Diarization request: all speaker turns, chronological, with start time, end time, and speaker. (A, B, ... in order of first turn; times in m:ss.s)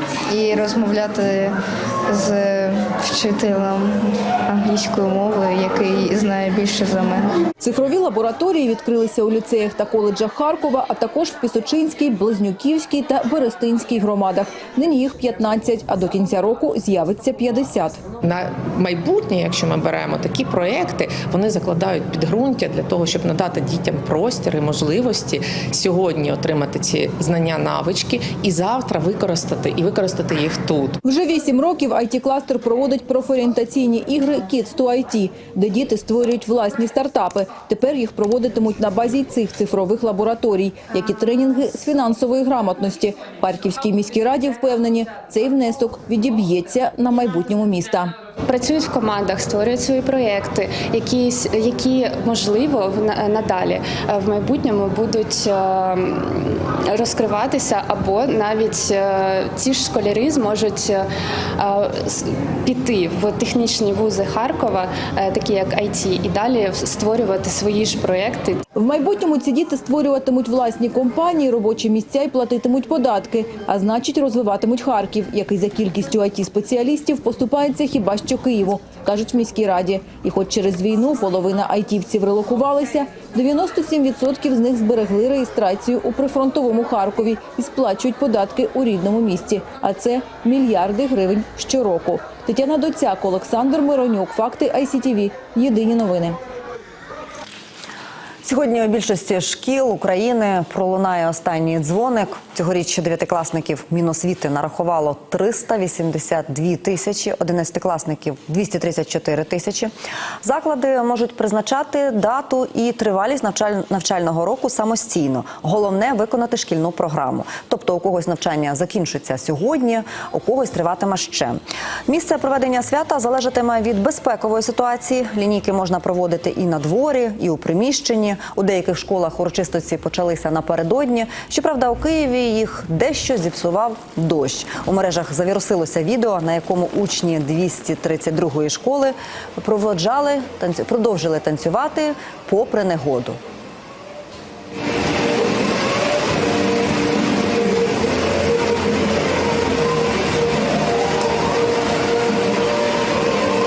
0:00.3-0:07.3 A
0:07.6-0:18.0 B
0:18.2-0:31.0 C
0:31.0-0:48.2 B
0:48.5-1:01.0 D
1:01.6-1:08.6 D
1:08.8-1:36.4 B
1:38.4-1:49.9 E
1:50.4-2:23.4 E